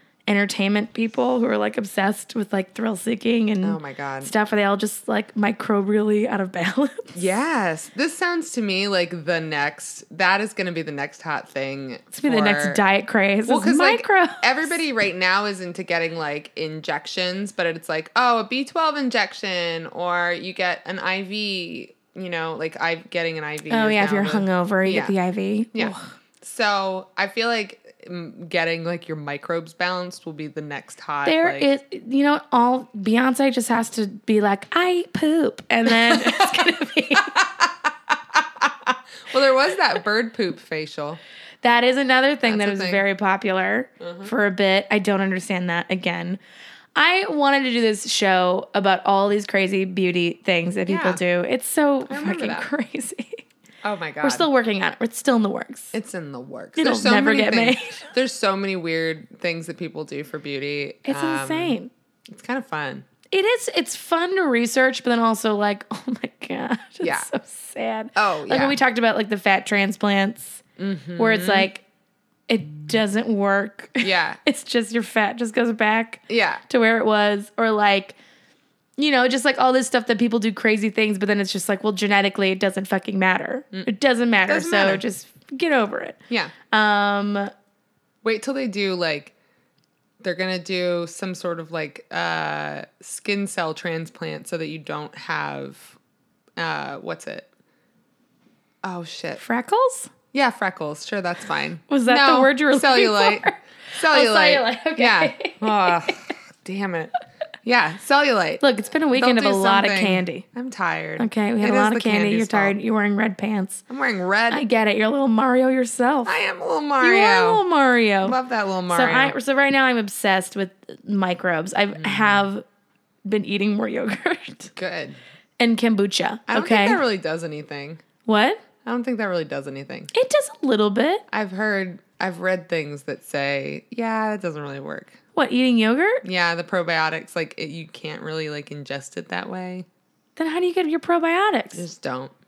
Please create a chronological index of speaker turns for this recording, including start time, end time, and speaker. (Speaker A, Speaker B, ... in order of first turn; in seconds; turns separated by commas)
Speaker A: 0.3-7.2, Speaker B: 3.6-4.3, Speaker B: 7.2-12.8, Speaker A: 12.1-14.8, Speaker B: 13.5-25.1, Speaker A: 23.7-26.0, Speaker B: 25.7-31.7, Speaker A: 31.2-37.4, Speaker B: 35.9-36.6, Speaker B: 37.3-41.2, Speaker A: 41.6-46.4, Speaker B: 42.5-43.0, Speaker B: 44.0-44.3, Speaker A: 47.0-53.4, Speaker B: 50.9-51.2, Speaker B: 52.1-52.7, Speaker B: 53.8-54.5, Speaker A: 54.2-55.9, Speaker B: 55.9-61.8, Speaker A: 56.8-58.1, Speaker A: 61.1-61.9, Speaker B: 62.3-63.1, Speaker A: 63.3-70.6, Speaker B: 67.0-67.3, Speaker B: 68.2-68.8, Speaker B: 70.8-71.7, Speaker A: 71.2-71.8, Speaker A: 72.5-78.2, Speaker B: 74.0-74.4, Speaker B: 76.3-76.6, Speaker A: 79.0-86.2, Speaker B: 84.5-85.0, Speaker A: 86.7-87.5, Speaker B: 88.2-89.3, Speaker B: 90.2-96.0, Speaker B: 96.6-97.5, Speaker B: 98.8-99.4, Speaker A: 99.4-100.1, Speaker B: 100.3-107.1, Speaker A: 101.9-106.2, Speaker B: 107.6-112.8, Speaker A: 108.6-110.5, Speaker A: 111.2-113.8, Speaker B: 113.9-114.6, Speaker A: 114.5-116.4, Speaker B: 116.3-117.6, Speaker A: 117.0-118.4, Speaker B: 118.2-119.3, Speaker A: 118.9-122.6, Speaker B: 122.0-122.5, Speaker A: 123.2-124.7, Speaker B: 124.8-125.2, Speaker A: 125.6-127.0, Speaker B: 126.5-128.0, Speaker A: 128.3-128.6, Speaker B: 128.8-130.1, Speaker A: 130.1-131.2, Speaker B: 131.3-135.2, Speaker A: 135.3-136.2, Speaker B: 136.2-139.9, Speaker A: 140.4-141.8, Speaker B: 141.8-142.3